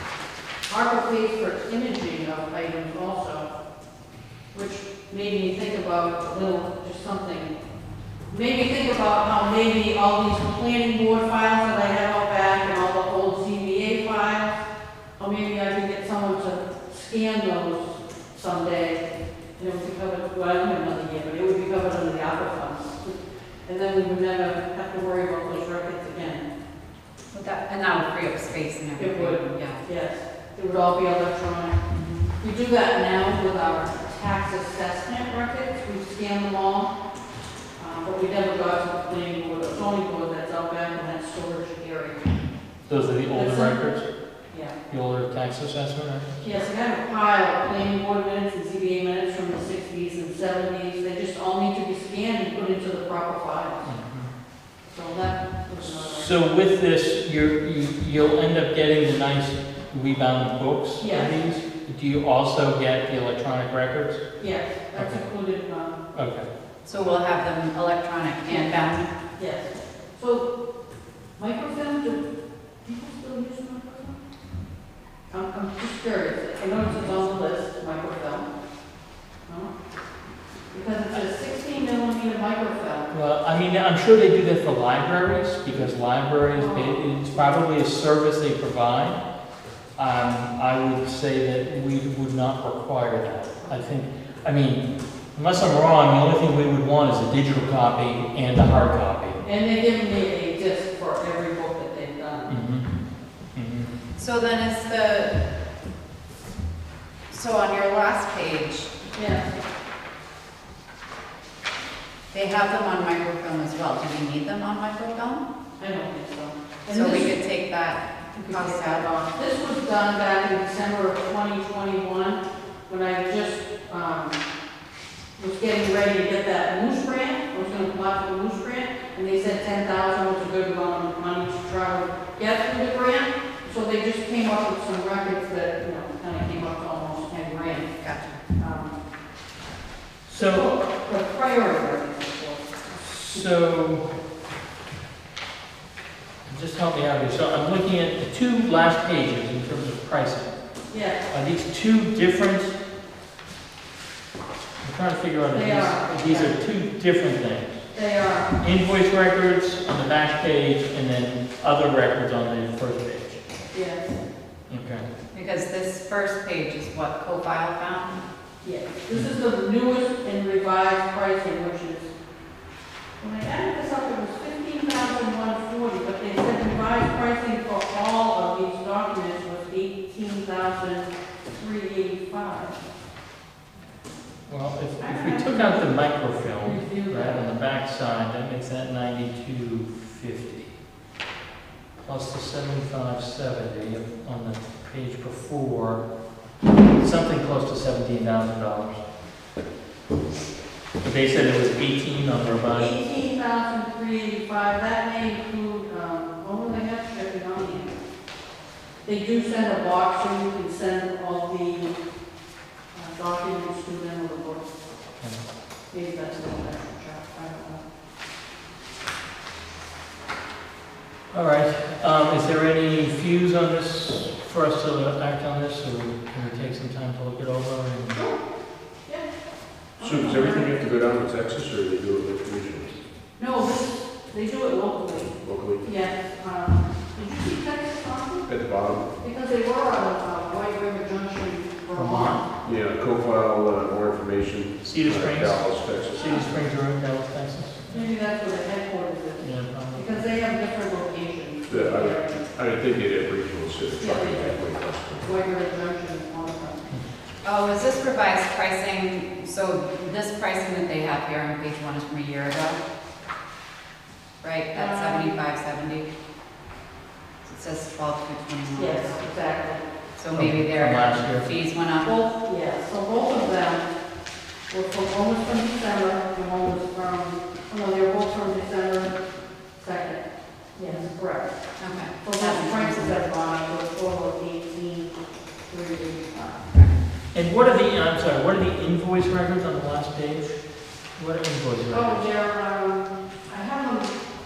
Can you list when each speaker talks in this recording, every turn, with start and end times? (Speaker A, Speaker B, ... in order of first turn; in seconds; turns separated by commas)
Speaker A: 0.7-3.5, Speaker A: 4.5-7.6, Speaker A: 8.3-14.6, Speaker A: 15.2-19.0, Speaker A: 19.6-26.5, Speaker B: 27.3-29.8, Speaker A: 29.0-31.9, Speaker B: 31.9-32.3, Speaker A: 32.4-36.9, Speaker A: 37.8-42.2, Speaker C: 42.9-44.1, Speaker A: 43.3-43.8, Speaker C: 44.9-46.3, Speaker A: 46.4-53.9, Speaker C: 53.8-54.3, Speaker A: 54.9-56.4, Speaker C: 55.8-64.2, Speaker A: 61.0-61.3, Speaker A: 64.4-66.0, Speaker C: 65.0-65.3, Speaker C: 66.1-66.5, Speaker B: 66.8-69.1, Speaker A: 68.5-70.5, Speaker A: 71.4-72.3, Speaker A: 72.8-74.2, Speaker A: 75.3-78.5, Speaker A: 79.5-79.7, Speaker A: 80.7-83.1, Speaker C: 83.1-89.2, Speaker A: 86.5-87.0, Speaker C: 90.0-99.4, Speaker A: 99.4-102.5, Speaker C: 102.5-103.0, Speaker C: 103.5-104.0, Speaker B: 104.2-105.4, Speaker B: 107.3-108.9, Speaker A: 109.1-109.5, Speaker B: 112.3-115.4, Speaker A: 115.8-117.4, Speaker B: 116.9-119.1, Speaker A: 118.3-124.4, Speaker A: 125.4-138.0, Speaker B: 138.0-138.4, Speaker A: 138.6-139.0, Speaker C: 140.3-140.7, Speaker A: 140.4-143.5, Speaker C: 143.0-144.1, Speaker C: 146.5-150.6, Speaker A: 150.9-151.3, Speaker C: 151.3-152.8, Speaker C: 154.8-157.8, Speaker A: 155.5-156.6, Speaker A: 157.9-158.5, Speaker C: 158.6-163.4, Speaker A: 163.7-164.2, Speaker C: 164.7-165.1, Speaker B: 165.3-168.2, Speaker A: 168.6-172.1, Speaker A: 173.2-182.8, Speaker C: 184.5-190.7, Speaker A: 185.0-185.9, Speaker A: 186.6-187.4, Speaker C: 192.0-196.1, Speaker C: 197.0-199.0, Speaker C: 201.0-202.9, Speaker A: 202.7-208.0, Speaker A: 209.1-212.0, Speaker A: 212.9-214.7, Speaker A: 215.9-217.8, Speaker C: 221.3-228.2, Speaker A: 228.1-228.4, Speaker A: 230.0-230.8, Speaker D: 230.0-233.0, Speaker A: 233.4-238.5, Speaker D: 235.1-235.9, Speaker D: 238.5-239.1, Speaker A: 239.2-242.4, Speaker C: 241.9-242.4, Speaker D: 242.6-246.4, Speaker C: 244.8-248.1, Speaker A: 247.9-252.5, Speaker C: 249.4-250.2, Speaker D: 251.7-255.3, Speaker A: 254.0-256.9, Speaker B: 257.4-262.8, Speaker B: 264.4-266.1, Speaker A: 264.7-265.4, Speaker B: 267.4-269.2, Speaker A: 268.8-269.8, Speaker B: 270.2-272.3, Speaker C: 270.3-271.5, Speaker A: 272.0-273.9, Speaker A: 274.7-279.1, Speaker A: 279.8-280.2, Speaker A: 280.8-281.6, Speaker B: 281.8-283.2, Speaker A: 282.2-285.2, Speaker A: 285.7-286.7, Speaker C: 287.3-290.6, Speaker C: 291.2-292.2, Speaker A: 291.9-294.2